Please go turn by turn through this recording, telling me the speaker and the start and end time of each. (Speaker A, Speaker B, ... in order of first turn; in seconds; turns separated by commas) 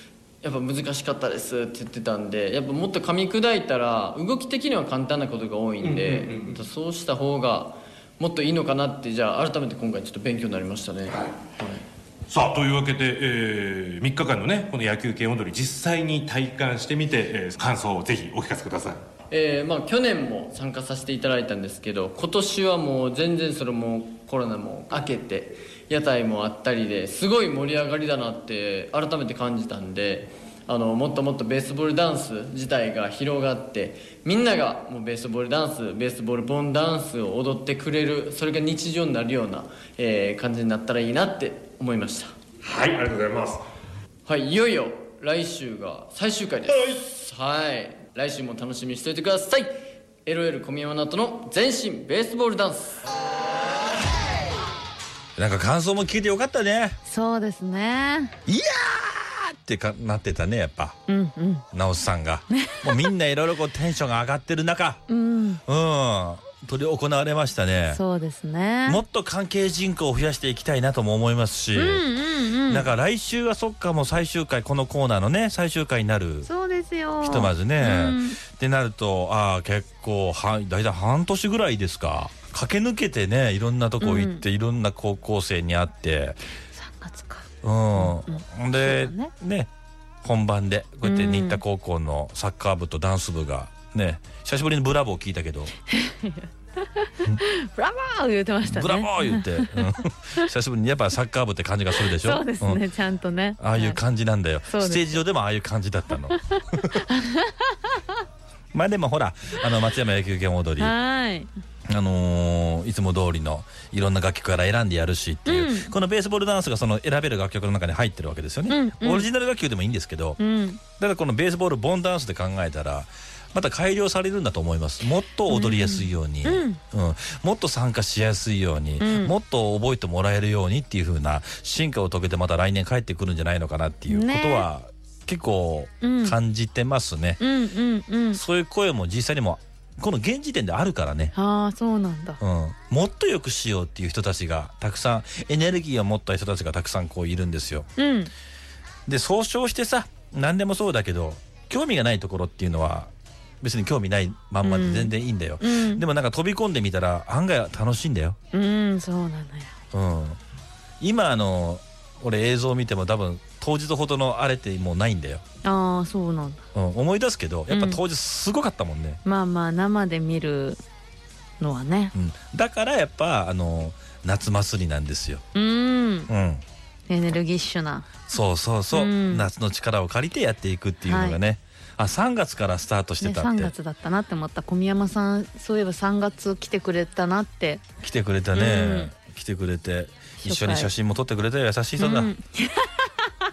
Speaker A: 0.4-11.8, Speaker B: 5.8-6.6, Speaker B: 12.3-19.0, Speaker A: 19.3-42.4, Speaker B: 42.7-43.6, Speaker A: 44.3-53.0, Speaker C: 55.4-57.0, Speaker D: 57.1-58.4, Speaker C: 58.5-61.0, Speaker D: 61.1-61.6, Speaker C: 61.7-65.0, Speaker D: 62.5-62.9, Speaker D: 65.1-65.6, Speaker C: 65.7-68.0, Speaker D: 67.9-69.0, Speaker C: 68.9-72.1, Speaker D: 71.8-72.9, Speaker C: 72.7-76.5, Speaker D: 76.5-78.4, Speaker C: 77.2-86.4, Speaker D: 84.0-84.4, Speaker D: 86.8-89.3, Speaker C: 87.6-89.7, Speaker C: 90.2-95.7, Speaker D: 91.0-91.6, Speaker D: 95.9-99.9, Speaker C: 98.6-102.8, Speaker D: 102.0-104.0, Speaker C: 103.6-107.0, Speaker D: 104.7-105.1, Speaker D: 107.1-107.7, Speaker C: 108.7-111.0, Speaker D: 110.8-111.5, Speaker C: 111.9-137.4, Speaker D: 115.5-115.9, Speaker D: 118.7-119.3, Speaker D: 120.4-120.8, Speaker D: 125.5-126.8, Speaker D: 129.0-129.3, Speaker D: 134.1-134.7, Speaker D: 136.0-136.4, Speaker D: 137.4-138.4, Speaker C: 138.3-141.3, Speaker D: 141.3-142.4, Speaker C: 142.4-147.9, Speaker D: 148.0-148.3, Speaker C: 149.1-158.4, Speaker D: 154.6-156.0, Speaker D: 158.5-159.7, Speaker C: 159.9-160.4, Speaker C: 161.0-165.4, Speaker D: 165.6-166.6, Speaker C: 166.8-169.2, Speaker D: 167.7-168.0, Speaker D: 169.2-170.8, Speaker D: 171.6-172.1, Speaker C: 172.1-175.4, Speaker D: 175.5-176.3, Speaker C: 176.3-176.6, Speaker D: 177.1-178.3, Speaker C: 178.3-183.7, Speaker D: 178.9-179.5, Speaker D: 181.1-181.4, Speaker D: 183.2-187.8, Speaker C: 188.0-192.3, Speaker D: 188.5-189.1, Speaker D: 190.4-190.9, Speaker D: 192.0-193.1